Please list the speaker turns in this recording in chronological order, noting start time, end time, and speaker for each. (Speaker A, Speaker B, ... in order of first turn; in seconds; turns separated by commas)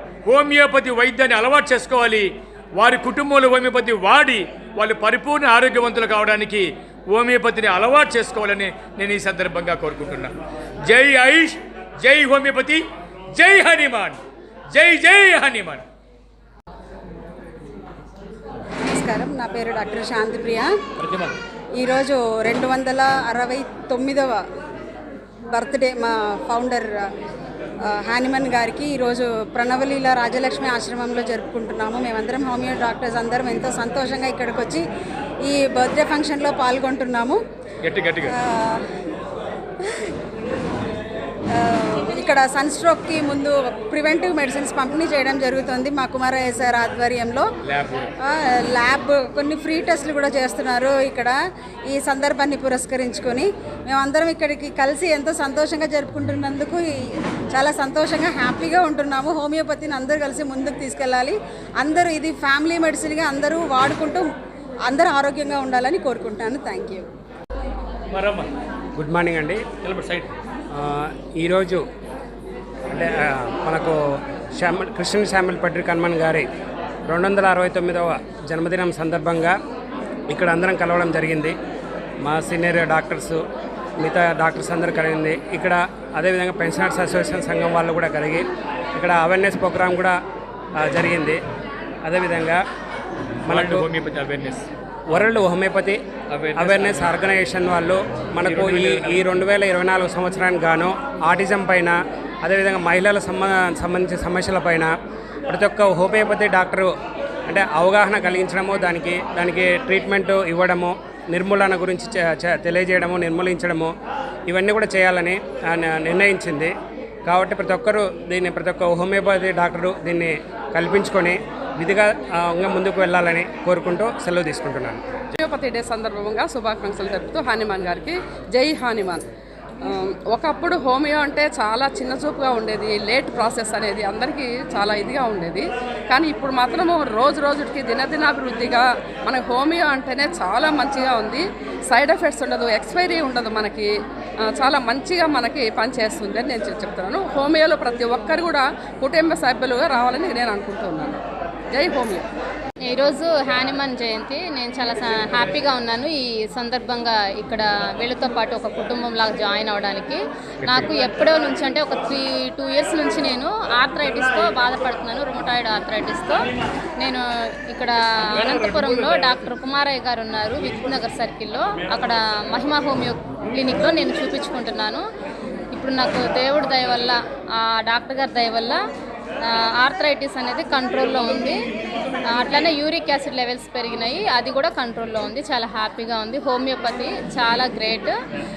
Speaker A: 0.2-10.3, Speaker A: 10.9-12.8, Speaker A: 13.3-14.2, Speaker A: 14.7-15.8, Speaker B: 18.9-20.7, Speaker A: 21.0-21.3, Speaker B: 21.8-24.4, Speaker B: 25.5-26.9, Speaker B: 27.9-34.8, Speaker B: 35.4-37.4, Speaker A: 37.8-38.3, Speaker B: 38.3-38.8, Speaker B: 41.5-47.5, Speaker A: 47.6-48.1, Speaker B: 48.2-51.3, Speaker B: 51.9-56.8, Speaker B: 57.5-64.3, Speaker B: 64.9-67.0, Speaker A: 68.1-68.5, Speaker C: 69.0-69.7, Speaker A: 69.8-70.3, Speaker C: 70.7-71.8, Speaker C: 72.9-74.0, Speaker C: 74.6-76.5, Speaker C: 77.1-79.5, Speaker C: 80.3-81.5, Speaker C: 82.2-83.4, Speaker C: 84.0-90.2, Speaker C: 90.8-91.4, Speaker C: 92.0-92.6, Speaker C: 93.4-93.9, Speaker A: 93.5-94.7, Speaker C: 95.1-96.0, Speaker A: 96.3-97.1, Speaker C: 96.5-104.9, Speaker A: 98.4-99.4, Speaker C: 105.5-106.9, Speaker C: 107.5-113.9, Speaker C: 114.5-116.7, Speaker C: 117.3-125.0, Speaker D: 125.4-129.2, Speaker D: 129.8-143.9, Speaker D: 144.5-151.2, Speaker D: 151.7-152.2, Speaker E: 152.8-166.4, Speaker E: 167.0-175.0, Speaker E: 175.7-178.8, Speaker E: 179.4-181.6, Speaker E: 182.3-188.1